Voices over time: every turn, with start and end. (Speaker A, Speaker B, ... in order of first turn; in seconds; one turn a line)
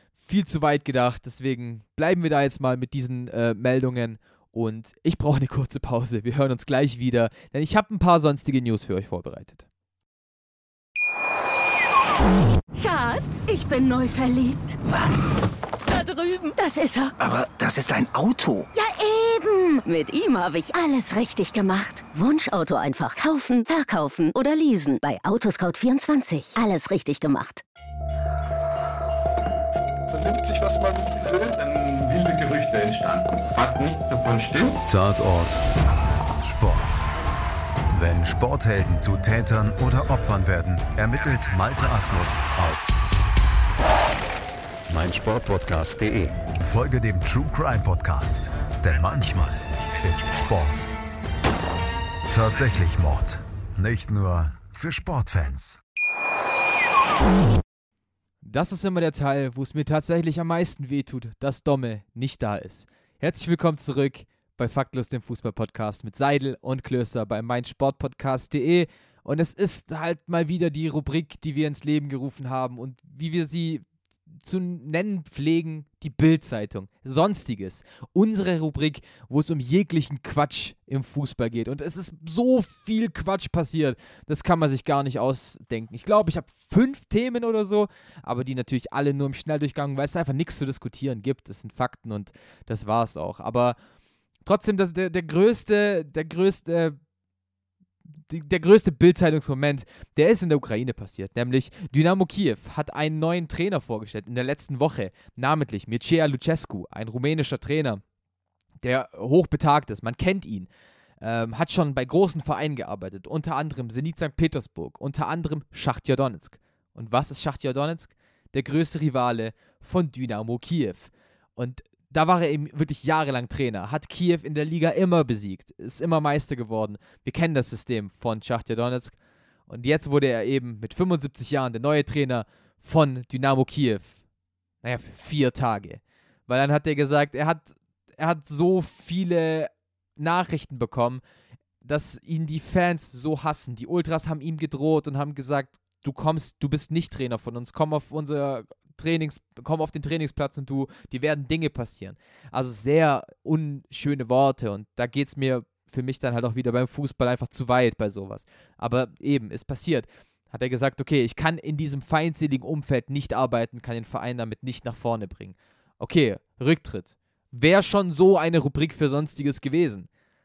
Speaker A: 0.2-9.6
Speaker B: 12.7-14.8
Speaker C: 14.8-15.3
Speaker B: 15.9-17.1
Speaker C: 17.2-18.7
Speaker B: 18.7-27.6
Speaker D: 30.1-34.8
Speaker E: 34.9-35.6
Speaker E: 36.4-37.1
Speaker E: 37.9-43.0
Speaker E: 44.9-50.9
Speaker E: 52.3-55.8
Speaker A: 58.4-73.8
Speaker A: 74.4-93.8
Speaker A: 94.5-97.0
Speaker A: 98.3-108.0
Speaker A: 108.8-110.7
Speaker A: 111.2-129.1
Speaker A: 129.7-134.2
Speaker A: 134.8-141.2
Speaker A: 141.8-170.1